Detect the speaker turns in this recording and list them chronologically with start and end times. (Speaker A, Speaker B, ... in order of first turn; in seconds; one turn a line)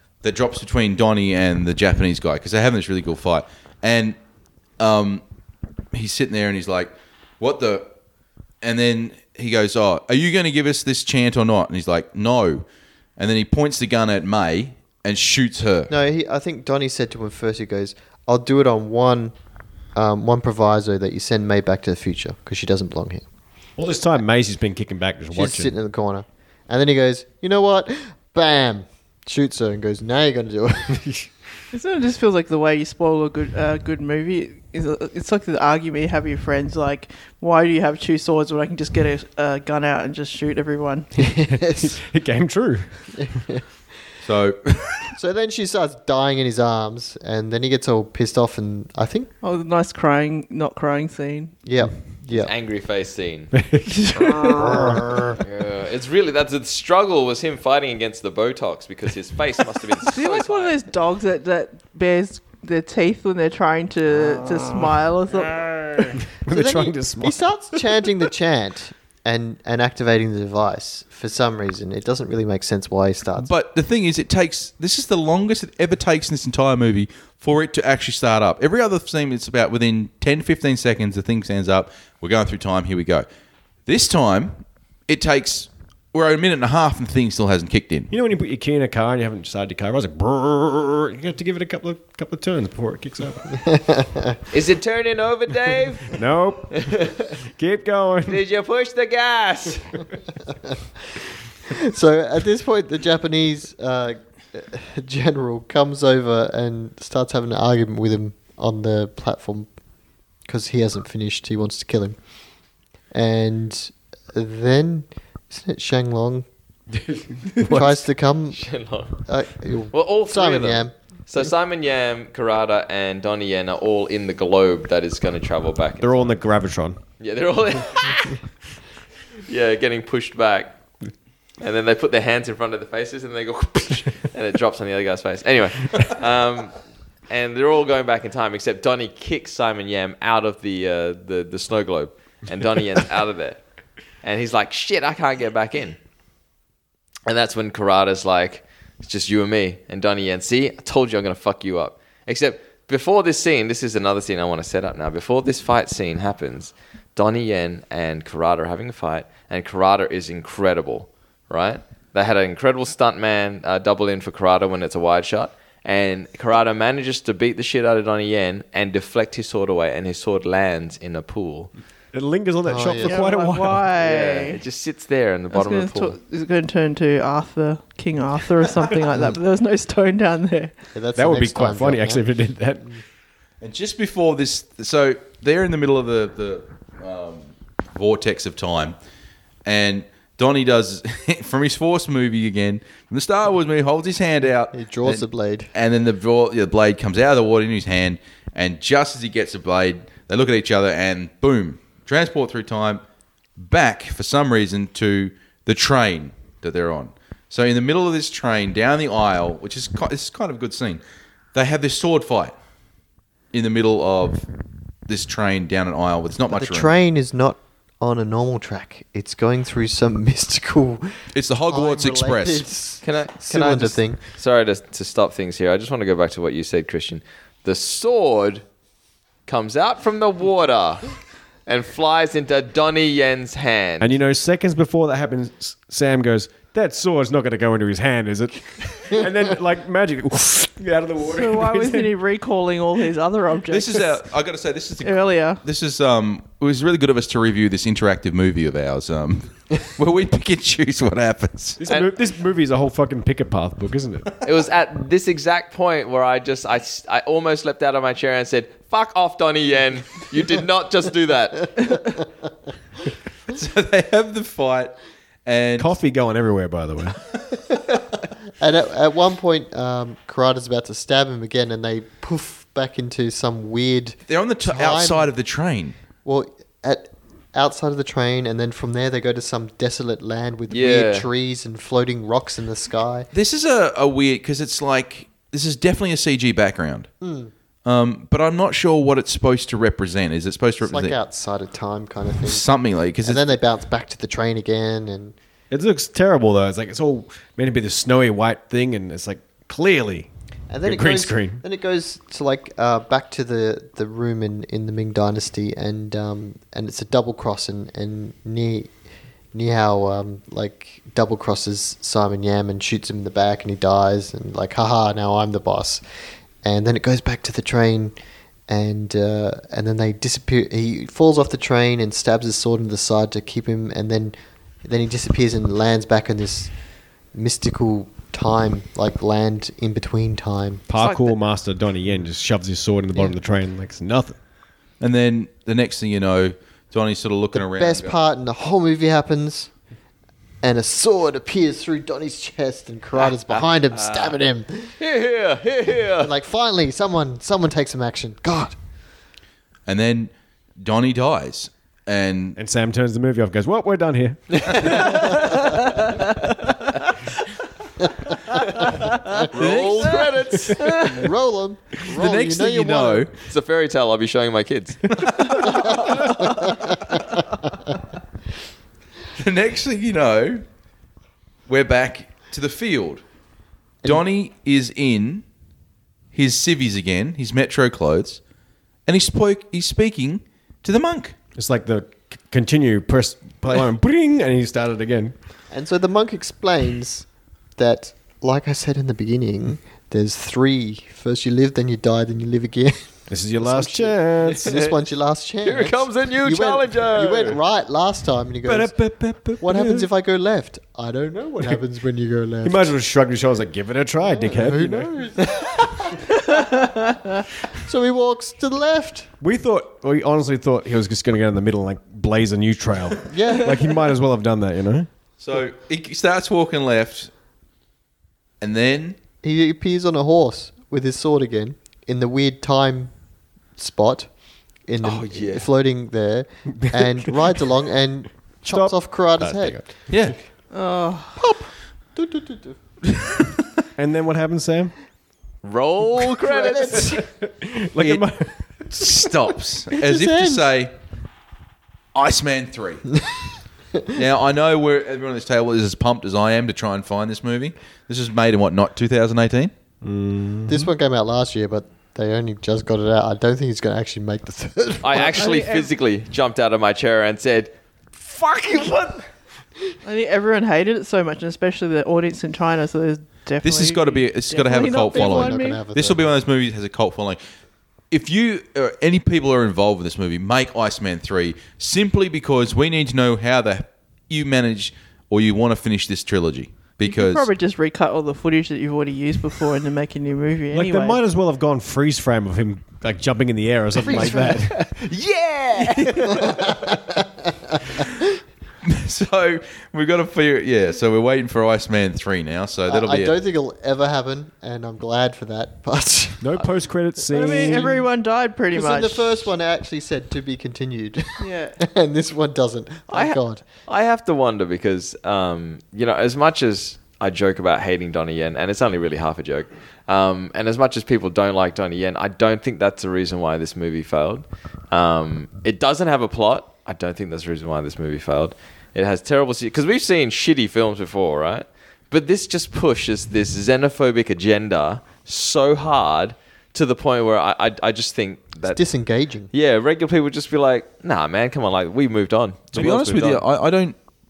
Speaker A: 0.2-4.2
Speaker A: 4.8-5.2
Speaker A: 5.9-7.9
Speaker A: 8.6-12.7
Speaker A: 13.2-15.9
Speaker B: 15.9-19.3
Speaker B: 19.9-23.2
Speaker C: 23.8-25.7
Speaker B: 25.3-31.1
Speaker D: 31.7-41.1
Speaker B: 41.2-42.0
Speaker C: 41.5-43.2
Speaker B: 43.2-43.6
Speaker A: 44.2-45.1
Speaker B: 45.2-49.3
Speaker D: 49.4-51.5
Speaker B: 51.6-52.5
Speaker E: 52.3-53.5
Speaker C: 53.5-55.4
Speaker D: 54.0-54.7
Speaker E: 55.4-60.8
Speaker D: 60.1-66.2
Speaker C: 66.3-68.0
Speaker B: 66.5-73.5
Speaker A: 73.4-83.3
Speaker A: 83.9-88.1
Speaker C: 88.1-93.6
Speaker B: 93.6-94.4
Speaker E: 94.5-96.1
Speaker C: 96.1-97.1
Speaker E: 96.8-97.2
Speaker C: 97.6-98.4
Speaker E: 98.3-99.9
Speaker B: 101.7-109.7
Speaker B: 110.5-112.2
Speaker B: 113.1-116.5
Speaker C: 117.3-117.9
Speaker B: 117.7-118.6
Speaker E: 118.5-119.2
Speaker B: 119.2-120.9
Speaker E: 119.9-126.4
Speaker C: 126.0-127.0
Speaker E: 127.2-128.3
Speaker E: 129.5-130.8
Speaker E: 131.6-136.8
Speaker E: 137.3-143.6
Speaker E: 144.2-146.0
Speaker E: 147.3-171.7
Speaker C: 172.1-173.9
Speaker B: 172.7-173.2
Speaker D: 173.0-174.6
Speaker E: 174.0-176.2
Speaker D: 175.5-180.8
Speaker B: 180.9-182.2
Speaker C: 181.2-182.9
Speaker A: 183.6-189.0
Speaker A: 189.7-203.0
Speaker B: 194.7-195.7
Speaker A: 203.6-211.0
Speaker A: 211.5-212.6
Speaker A: 213.5-214.5
Speaker A: 215.1-216.9
Speaker B: 216.5-221.1
Speaker A: 221.3-222.7
Speaker B: 221.7-224.2
Speaker E: 223.0-228.6
Speaker E: 229.5-231.1
Speaker E: 231.7-234.1
Speaker C: 234.0-242.2
Speaker D: 241.2-244.2
Speaker A: 243.7-251.8
Speaker D: 245.0-245.6
Speaker C: 251.8-254.4
Speaker E: 254.4-261.9
Speaker A: 263.5-265.9
Speaker C: 265.8-267.2
Speaker B: 268.6-275.3
Speaker A: 274.3-276.0
Speaker B: 276.2-283.3
Speaker E: 280.7-281.3
Speaker A: 283.3-287.1
Speaker B: 287.2-287.5
Speaker A: 287.9-291.2
Speaker B: 290.8-292.7
Speaker A: 292.4-293.5
Speaker B: 293.2-295.3
Speaker C: 295.7-300.3
Speaker B: 300.7-308.9
Speaker C: 300.9-301.6
Speaker B: 309.5-316.0
Speaker B: 316.6-318.1
Speaker B: 318.7-326.7
Speaker B: 327.3-330.9
Speaker C: 330.9-334.4
Speaker E: 331.0-331.4
Speaker A: 335.0-338.2
Speaker B: 337.6-339.7
Speaker B: 340.6-344.9
Speaker E: 343.2-344.4
Speaker E: 345.0-346.3
Speaker B: 346.2-348.8
Speaker A: 349.9-352.6
Speaker C: 352.6-355.3
Speaker E: 354.7-355.2
Speaker E: 359.5-361.1
Speaker A: 359.5-360.3
Speaker B: 361.1-363.3
Speaker A: 362.1-363.3
Speaker E: 363.5-365.0
Speaker A: 365.1-365.9
Speaker B: 365.7-367.2
Speaker A: 369.4-370.6
Speaker A: 371.7-373.2
Speaker A: 374.1-375.4
Speaker A: 376.3-378.4
Speaker A: 379.1-381.4
Speaker C: 381.6-385.4
Speaker B: 385.7-399.1
Speaker C: 393.3-394.7
Speaker E: 394.6-394.9
Speaker E: 395.6-397.6
Speaker C: 398.6-400.1
Speaker B: 399.6-402.9
Speaker C: 402.6-405.1
Speaker B: 404.2-406.2
Speaker D: 406.4-407.4
Speaker B: 407.8-409.3
Speaker C: 409.4-415.1
Speaker B: 413.3-413.8
Speaker A: 415.4-417.3
Speaker A: 418.6-419.2
Speaker B: 419.4-423.1
Speaker B: 423.8-424.3
Speaker B: 424.9-429.8
Speaker E: 425.0-425.7
Speaker C: 428.7-429.9
Speaker A: 430.1-430.4
Speaker D: 430.7-431.4
Speaker B: 431.4-432.8
Speaker C: 434.0-434.9
Speaker E: 435.6-437.2
Speaker B: 436.6-437.2
Speaker C: 437.0-439.1
Speaker A: 438.0-438.3
Speaker A: 438.9-440.9
Speaker B: 440.0-440.7
Speaker A: 442.1-443.1
Speaker A: 444.1-449.7
Speaker C: 450.0-450.9
Speaker B: 450.7-455.5
Speaker E: 455.0-459.2
Speaker D: 455.2-455.9
Speaker D: 460.1-465.8
Speaker A: 463.6-467.4
Speaker B: 464.9-466.3
Speaker A: 468.1-477.5
Speaker D: 477.0-481.2
Speaker C: 480.7-484.9
Speaker B: 484.0-484.6
Speaker E: 485.1-486.0
Speaker B: 486.3-487.8
Speaker A: 488.8-493.4
Speaker B: 492.9-496.6
Speaker C: 496.4-498.1
Speaker D: 497.3-499.4
Speaker B: 497.4-497.9
Speaker B: 498.7-503.6
Speaker D: 501.4-501.8
Speaker E: 503.1-528.8
Speaker B: 528.7-529.5
Speaker E: 529.5-533.4
Speaker A: 532.7-534.0